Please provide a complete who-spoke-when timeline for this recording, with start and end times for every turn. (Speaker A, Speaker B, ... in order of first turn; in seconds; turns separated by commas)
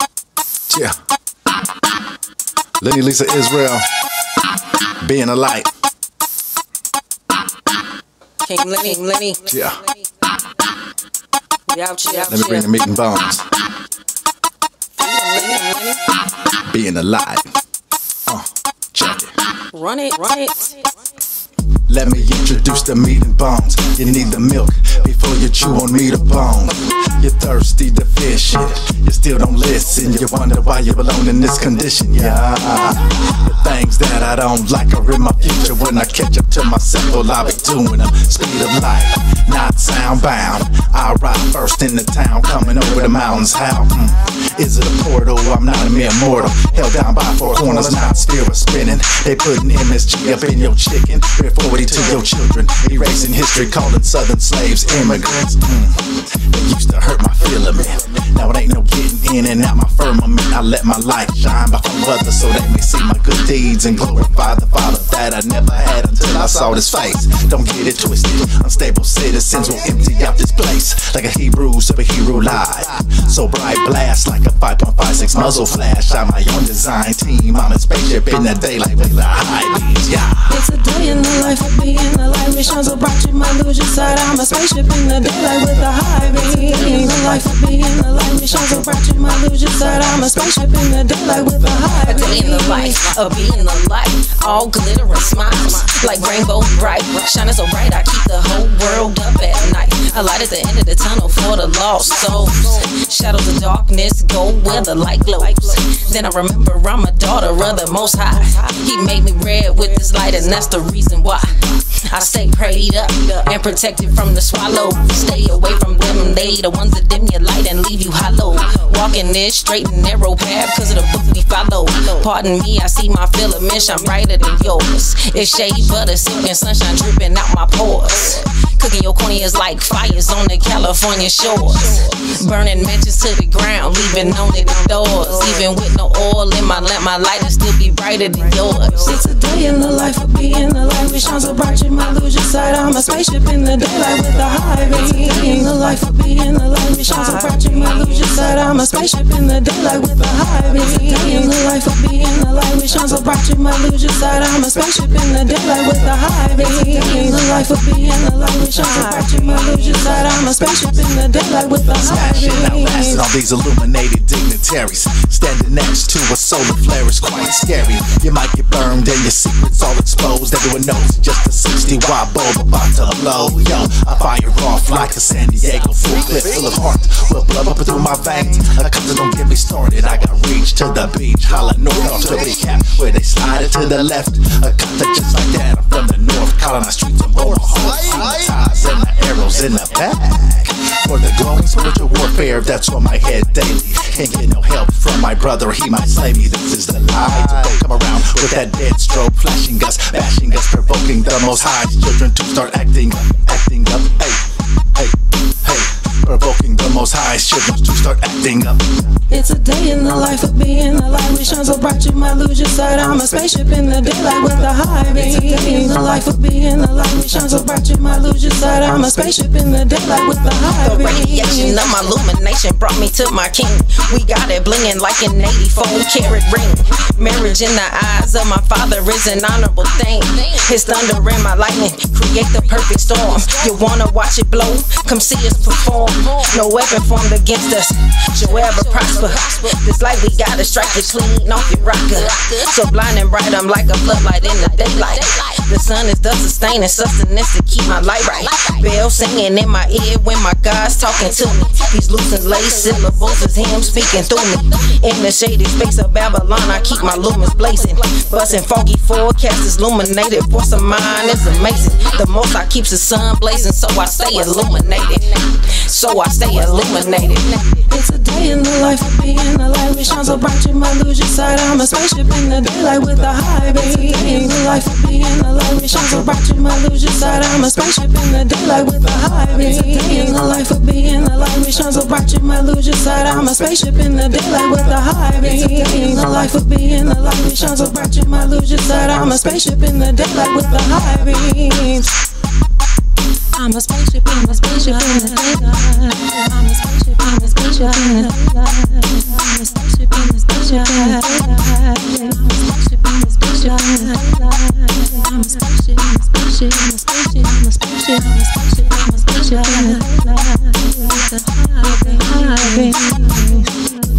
Speaker A: 0.7-0.9, Speaker A: 2.8-3.9, Speaker A: 5.0-5.7, Speaker B: 8.4-9.6, Speaker A: 9.5-9.8, Speaker B: 11.7-12.7, Speaker A: 12.3-13.5, Speaker B: 15.0-16.1, Speaker A: 16.7-17.5, Speaker A: 18.3-19.3, Speaker B: 19.7-20.9, Speaker A: 21.9-80.6, Speaker C: 80.6-92.5, Speaker B: 92.0-139.3, Speaker C: 139.1-163.0, Speaker B: 159.0-159.3, Speaker A: 161.8-209.2, Speaker C: 209.3-221.5, Speaker B: 220.6-267.8, Speaker C: 267.8-292.2, Speaker B: 293.6-313.8, Speaker C: 296.7-297.1, Speaker C: 298.3-298.9, Speaker C: 299.4-299.7, Speaker C: 301.9-302.6